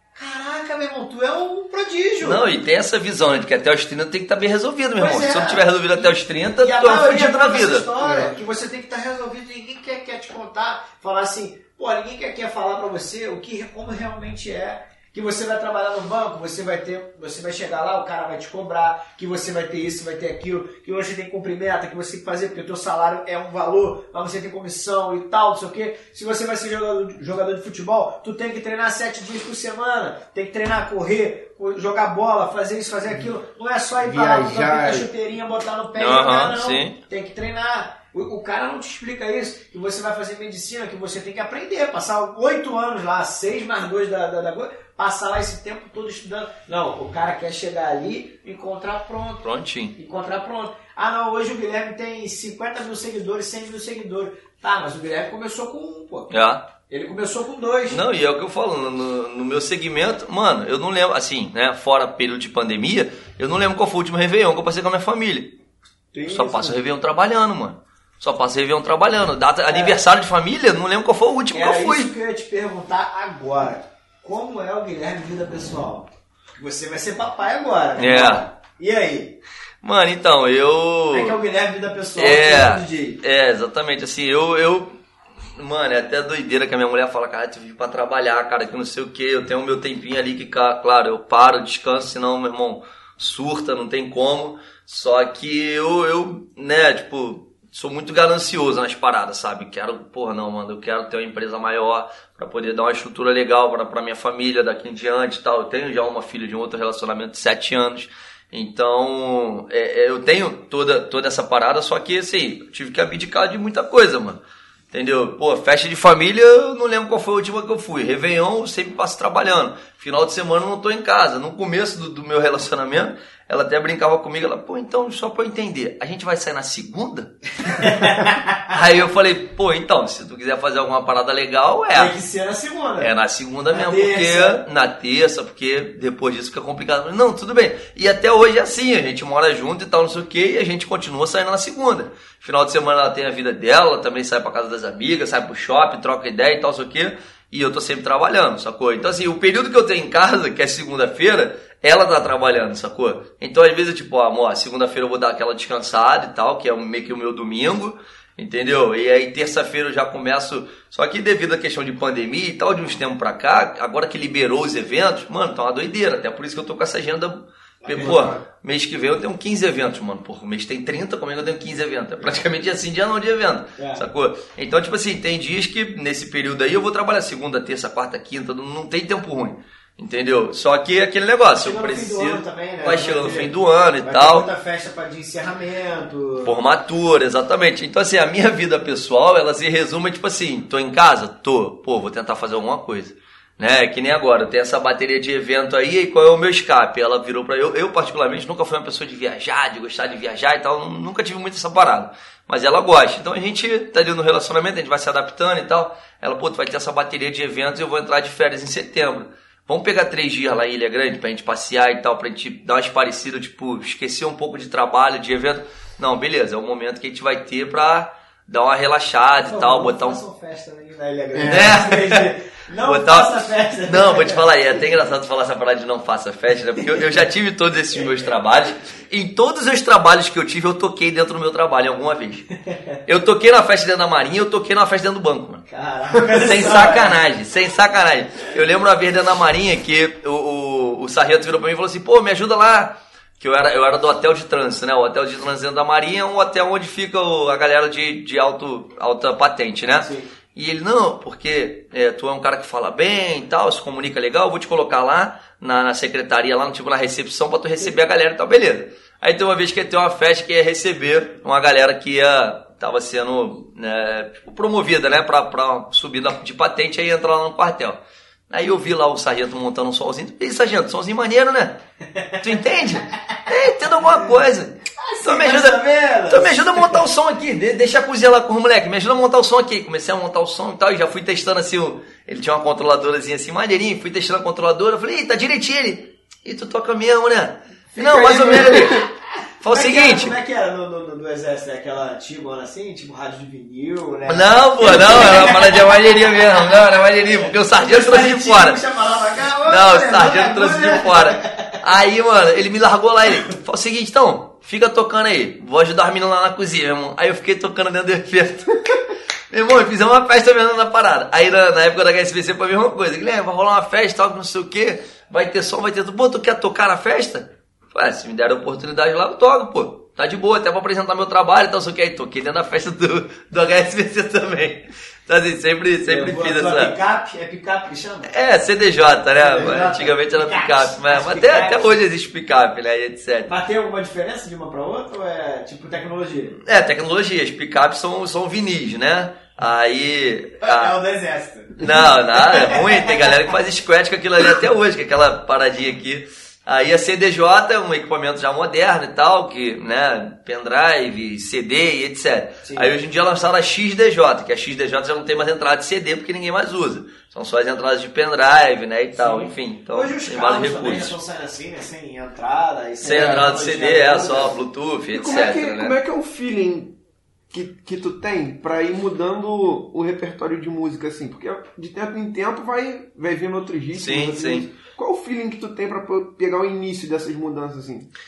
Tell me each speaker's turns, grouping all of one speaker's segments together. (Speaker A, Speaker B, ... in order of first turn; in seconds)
Speaker A: 0.1-2.4, 5.0-56.3, 56.9-58.0, 66.1-66.8, 69.7-70.0, 71.5-79.4, 81.1-83.2, 127.6-128.7, 131.9-133.1, 133.7-134.6, 167.8-168.3, 173.8-174.1, 181.6-186.6, 219.4-224.4, 235.7-237.2, 250.0-250.3, 275.0-277.1, 289.6-296.1, 297.5-301.8, 326.1-328.3, 329.4-332.0, 333.5-336.6, 340.6-343.1, 352.6-352.9, 359.1-364.5
Speaker B: 2.2-7.9, 36.0-37.0, 49.4-50.0, 56.3-56.6, 57.9-65.5, 66.3-72.1, 78.0-78.4, 79.8-81.4, 82.2-84.9, 85.6-114.4, 114.9-127.3, 128.7-132.2, 133.0-184.5, 186.4-220.2, 221.4-222.3, 222.8-232.5, 233.1-235.7, 236.2-271.8, 272.4-289.1, 289.6-290.3, 294.3-298.8, 299.7-326.9, 328.3-333.5, 336.6-340.9, 341.8-361.2, 363.0-366.0, 373.9-374.7
Speaker C: 8.0-8.3, 34.0-35.1, 168.0-168.4, 221.3-221.8, 287.9-289.1, 363.0-363.5, 365.1-367.0, 367.5-378.1